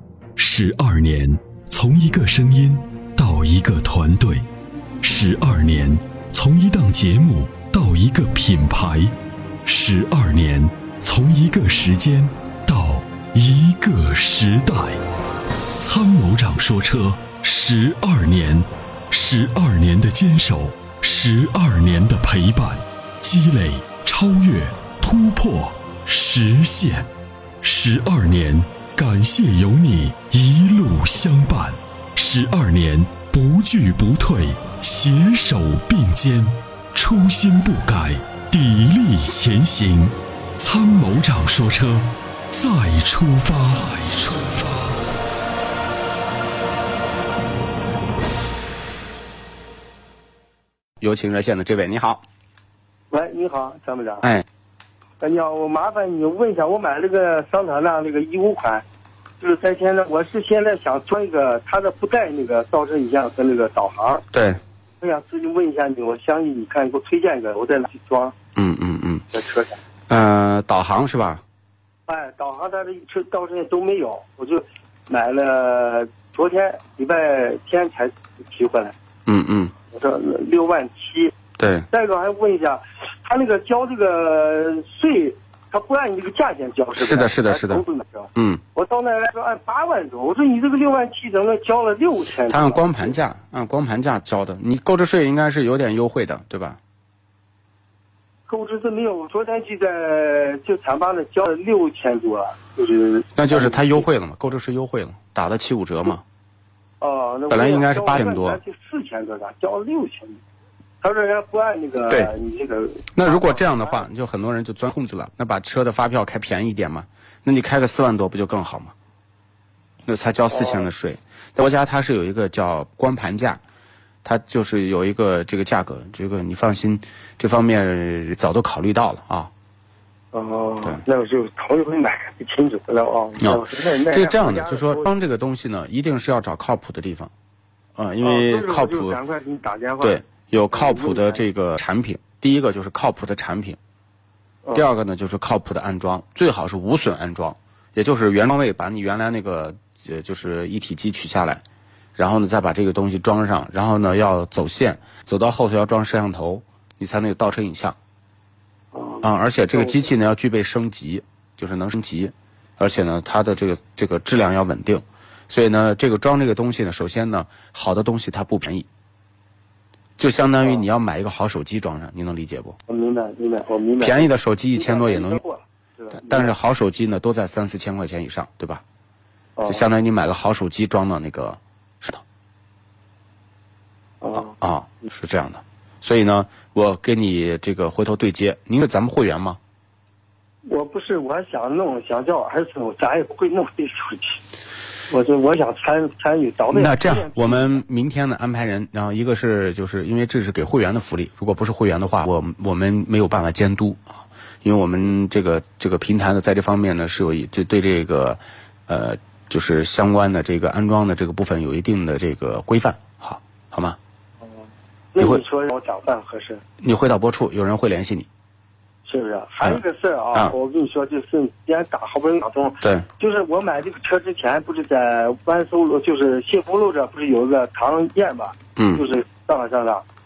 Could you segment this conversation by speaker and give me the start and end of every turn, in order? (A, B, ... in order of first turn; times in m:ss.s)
0:00.4-0:04.5 A
0:05.0-0:09.1 A
0:09.6-0:15.0 A
0:15.8-0:27.1 A
0:27.6-0:44.9 A
0:51.0-0:52.2 B
0:53.1-0:54.3 C
0:55.2-0:58.8 C
0:59.4-1:04.2 C
1:04.3-1:04.6 B
1:05.0-1:08.3 C
1:08.6-1:09.2 B
1:09.3-1:09.8 C
1:10.1-1:11.4 B
1:12.1-1:19.0 C
1:19.2-1:19.7 B
1:19.9-1:21.4 C
1:21.6-1:21.9 B
1:21.9-1:33.1 C
1:27.0-1:27.8 B
1:28.3-1:28.6 B
1:32.5-1:36.8 B
1:38.5-1:44.0 C
1:43.4-1:46.2 B
1:47.0-1:50.4 C
1:47.5-1:48.6 B
1:51.0-1:54.0 C
1:53.1-1:58.9 B
2:00.0-2:03.6 B
2:00.5-2:00.9 C
2:04.2-2:09.5 B
2:10.3-2:15.1 C
2:13.4-2:17.3 B
2:18.0-2:19.2 B
2:18.2-2:21.4 C
2:20.0-2:23.8 B
2:24.7-2:31.6 B
2:32.2-2:38.0 B
2:38.9-2:40.1 C
2:39.2-2:48.9 B
2:50.2-2:52.8 B
2:52.9-2:56.5 C
2:54.0-2:55.4 B
2:56.1-2:58.8 B
2:59.6-2:59.8 C
2:59.7-3:02.2 B
3:04.2-3:04.6 C
3:04.3-3:09.6 B
3:10.6-3:14.4 C
3:15.1-3:17.8 C
3:16.7-3:34.0 B
3:34.5-3:36.6 C
3:35.2-3:35.4 B
3:36.8-3:38.3 B
3:39.0-3:50.0 C
3:42.8-3:43.1 B
3:48.8-3:49.0 B